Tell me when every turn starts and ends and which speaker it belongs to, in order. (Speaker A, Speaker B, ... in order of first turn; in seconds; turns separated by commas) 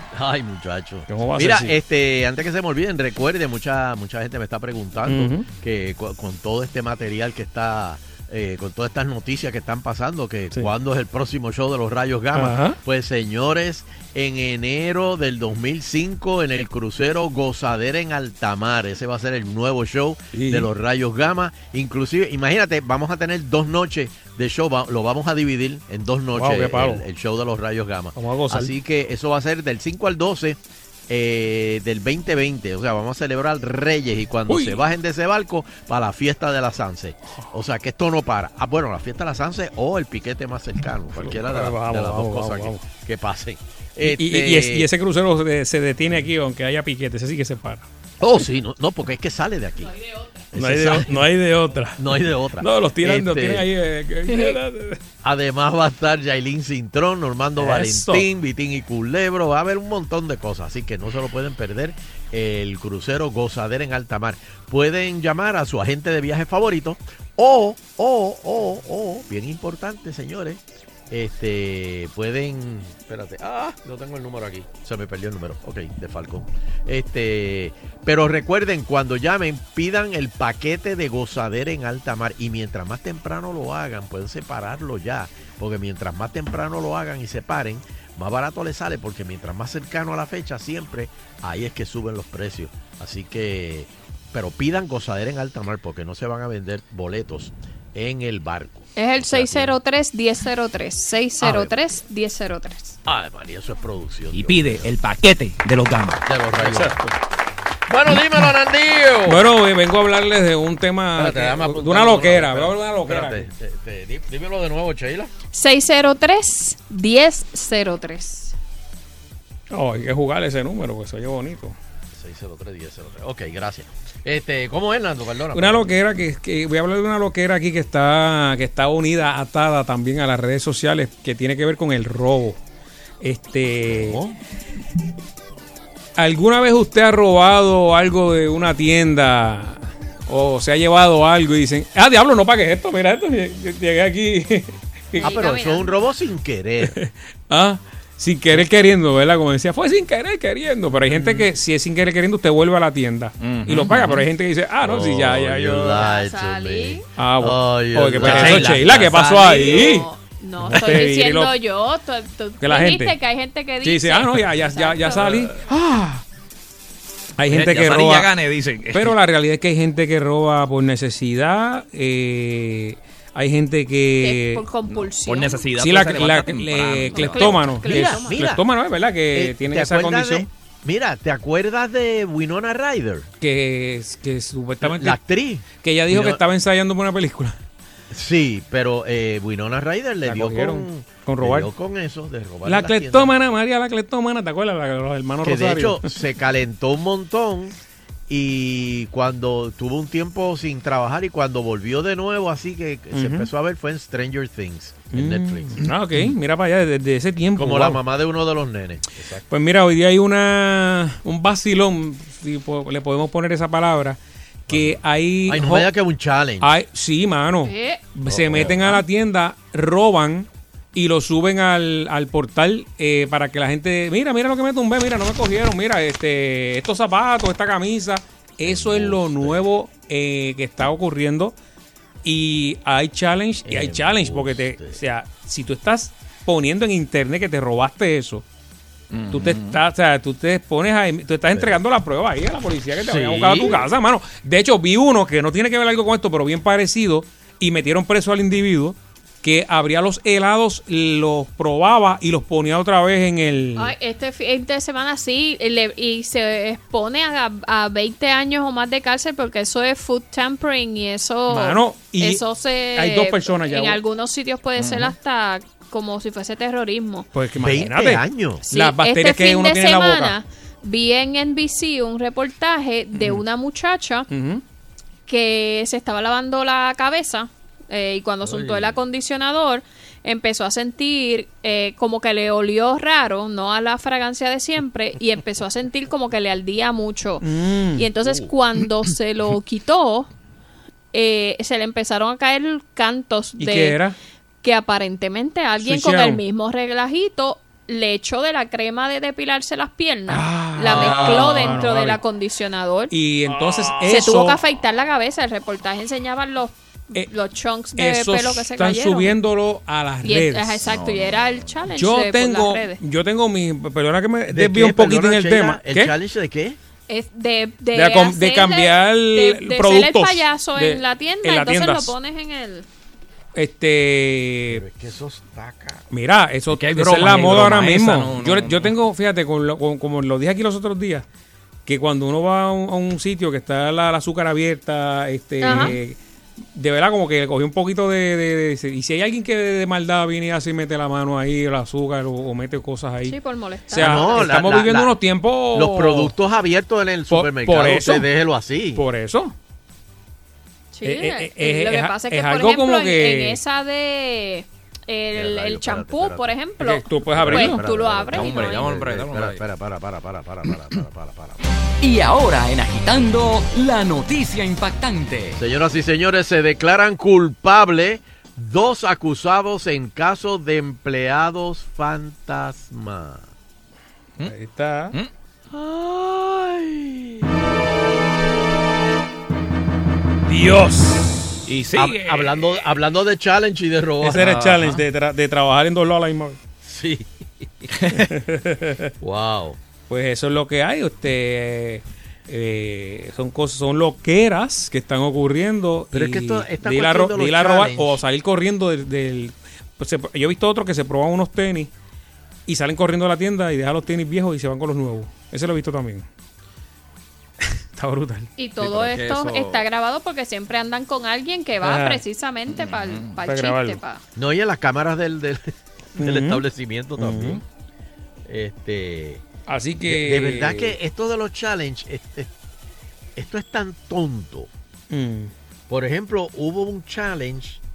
Speaker A: 0.1-44.9, Speaker B: 1.1-1.7, Speaker B: 5.1-5.5, Speaker B: 12.3-12.8, Speaker B: 20.3-20.7, Speaker B: 26.4-27.0, Speaker B: 28.2-28.7, Speaker B: 34.5-34.8, Speaker B: 41.2-42.8, Speaker B: 44.1-47.9, Speaker A: 48.2-49.9, Speaker A: 50.5-51.2, Speaker B: 50.5-52.0, Speaker A: 52.0-53.7, Speaker B: 52.6-55.0, Speaker C: 54.3-54.6, Speaker A: 55.2-99.8, Speaker B: 57.6-58.2, Speaker C: 99.0-103.0, Speaker A: 101.4-101.7, Speaker A: 103.0-104.9, Speaker D: 104.3-106.2, Speaker A: 106.3-107.0, Speaker B: 106.6-107.1, Speaker A: 107.9-109.4, Speaker B: 109.3-113.5, Speaker A: 111.2-115.3, Speaker C: 115.5-118.6, Speaker B: 119.7-121.8, Speaker A: 122.1-125.9, Speaker B: 125.5-132.6, Speaker B: 133.2-134.2, Speaker A: 133.9-134.3, Speaker B: 136.2-145.4, Speaker A: 145.2-147.0, Speaker C: 145.2-145.9, Speaker B: 146.9-156.1, Speaker A: 151.1-151.5, Speaker D: 153.4-154.2, Speaker A: 154.8-160.0, Speaker C: 156.0-157.1, Speaker B: 157.2-160.1, Speaker C: 158.2-165.5, Speaker B: 160.7-161.6, Speaker B: 162.6-163.2, Speaker B: 163.8-166.2, Speaker B: 167.4-168.3, Speaker D: 167.5-169.2, Speaker B: 168.9-174.7, Speaker C: 174.2-175.7, Speaker D: 175.2-177.8, Speaker B: 175.8-180.5, Speaker C: 177.1-178.4, Speaker A: 177.9-178.6, Speaker A: 179.3-183.3, Speaker B: 183.4-185.2, Speaker A: 184.8-186.4, Speaker B: 185.8-187.6, Speaker A: 188.1-193.3, Speaker B: 190.3-191.7, Speaker B: 192.7-196.1, Speaker A: 195.4-197.8, Speaker A: 198.3-205.8, Speaker B: 203.1-203.5, Speaker B: 205.1-208.0, Speaker A: 207.6-209.4, Speaker B: 209.5-215.9, Speaker A: 214.7-216.7, Speaker B: 216.6-231.6, Speaker C: 217.6-218.1, Speaker A: 218.3-219.0, Speaker A: 228.6-229.7, Speaker B: 232.2-238.4, Speaker A: 233.7-235.0, Speaker D: 239.1-239.8, Speaker B: 239.3-253.9, Speaker A: 241.5-241.8, Speaker A: 243.0-243.9, Speaker C: 253.8-267.3, Speaker B: 261.5-262.4, Speaker B: 262.9-264.0, Speaker D: 264.8-265.1, Speaker B: 267.3-270.4, Speaker A: 267.6-268.6, Speaker C: 268.7-274.3, Speaker B: 273.1-273.4, Speaker B: 274.3-274.6, Speaker C: 275.3-287.4, Speaker A: 278.4-279.0, Speaker B: 287.4-288.1, Speaker C: 288.0-290.3, Speaker C: 291.1-294.0, Speaker B: 293.6-294.2, Speaker C: 294.6-303.1, Speaker B: 295.8-296.4, Speaker B: 300.3-302.2, Speaker A: 300.9-301.8, Speaker B: 303.1-304.6, Speaker A: 303.6-304.1, Speaker C: 304.1-309.4, Speaker B: 307.9-310.8, Speaker C: 310.2-313.0, Speaker D: 310.9-311.8, Speaker B: 312.0-316.1, Speaker A: 314.5-316.8, Speaker C: 317.1-322.9, Speaker B: 317.9-322.1, Speaker B: 323.6-324.8, Speaker A: 324.7-326.1, Speaker B: 326.1-331.2, Speaker D: 326.7-328.9, Speaker B: 331.9-336.2, Speaker C: 335.6-336.0, Speaker B: 336.7-343.4, Speaker C: 343.3-344.5, Speaker B: 343.9-346.3, Speaker A: 343.9-345.1, Speaker A: 345.7-349.0, Speaker B: 347.3-348.3, Speaker B: 349.0-349.5, Speaker C: 350.9-358.9, Speaker B: 351.0-353.6, Speaker A: 355.3-356.6, Speaker B: 356.8-357.9, Speaker A: 357.3-361.6, Speaker D: 358.3-359.6, Speaker E: 362.0-365.6, Speaker A: 365.6-373.5, Speaker B: 374.4-375.1, Speaker A: 375.7-377.6, Speaker B: 380.5-381.4, Speaker D: 381.7-382.8, Speaker A: 381.9-384.5, Speaker B: 384.2-386.6, Speaker D: 384.4-385.0, Speaker A: 386.8-387.9, Speaker B: 388.3-389.1, Speaker A: 389.2-389.8, Speaker B: 390.1-401.9, Speaker A: 396.1-398.2, Speaker B: 402.7-406.3, Speaker B: 407.9-408.5, Speaker C: 408.6-414.2, Speaker D: 408.8-409.9, Speaker B: 411.8-412.2, Speaker D: 412.7-413.4, Speaker B: 413.4-414.0, Speaker A: 414.4-417.6, Speaker B: 416.2-416.6, Speaker B: 417.2-417.6, Speaker A: 418.5-419.4, Speaker B: 419.7-420.9, Speaker A: 420.1-422.5, Speaker A: 423.4-424.7, Speaker B: 425.1-425.5, Speaker A: 425.9-427.8